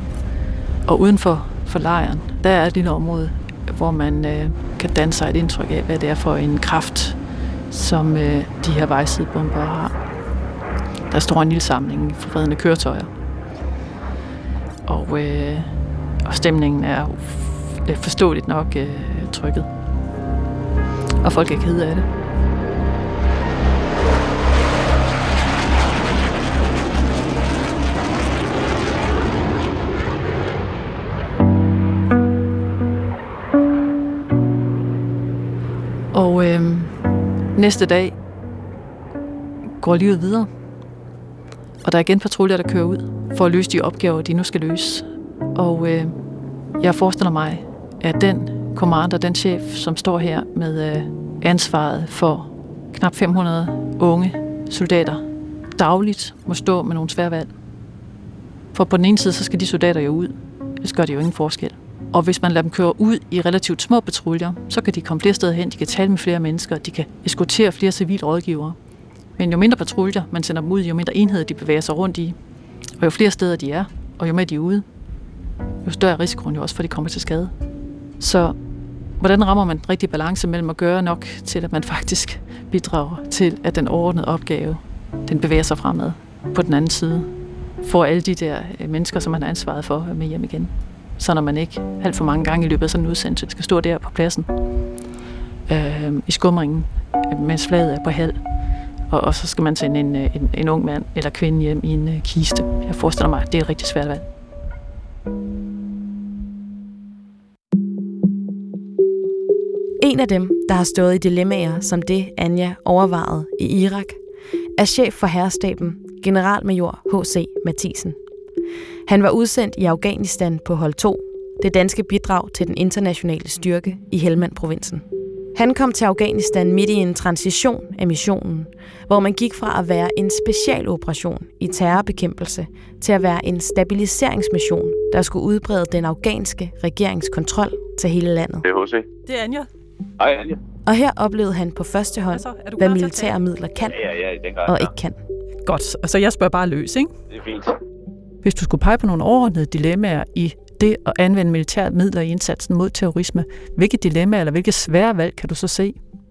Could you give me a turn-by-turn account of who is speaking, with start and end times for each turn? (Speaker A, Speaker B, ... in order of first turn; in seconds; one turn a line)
Speaker A: 0.9-7.2
Speaker A: 7.7-10.0
Speaker A: 11.1-13.1
Speaker A: 14.9-19.7
Speaker A: 21.2-22.1
Speaker A: 36.1-38.1
Speaker A: 39.8-40.5
Speaker A: 41.8-46.2
Speaker A: 46.8-55.2
Speaker A: 55.8-57.5
Speaker A: 58.7-68.8
Speaker A: 69.4-72.3
Speaker A: 73.0-74.8
Speaker A: 75.8-77.5
Speaker A: 78.2-78.5
Speaker A: 79.2-94.5
Speaker A: 95.7-98.4
Speaker A: 99.1-104.2
Speaker B: 110.0-114.2
Speaker B: 114.8-118.2
Speaker B: 119.0-138.6
Speaker C: 138.6-139.1
Speaker A: 139.2-139.7
Speaker C: 140.2-140.6
Speaker B: 140.8-144.0
Speaker A: 142.3-143.3
Speaker C: 143.9-144.9
Speaker B: 144.6-145.2
Speaker A: 145.6-147.1
Speaker C: 147.3-147.8
Speaker A: 148.4-156.0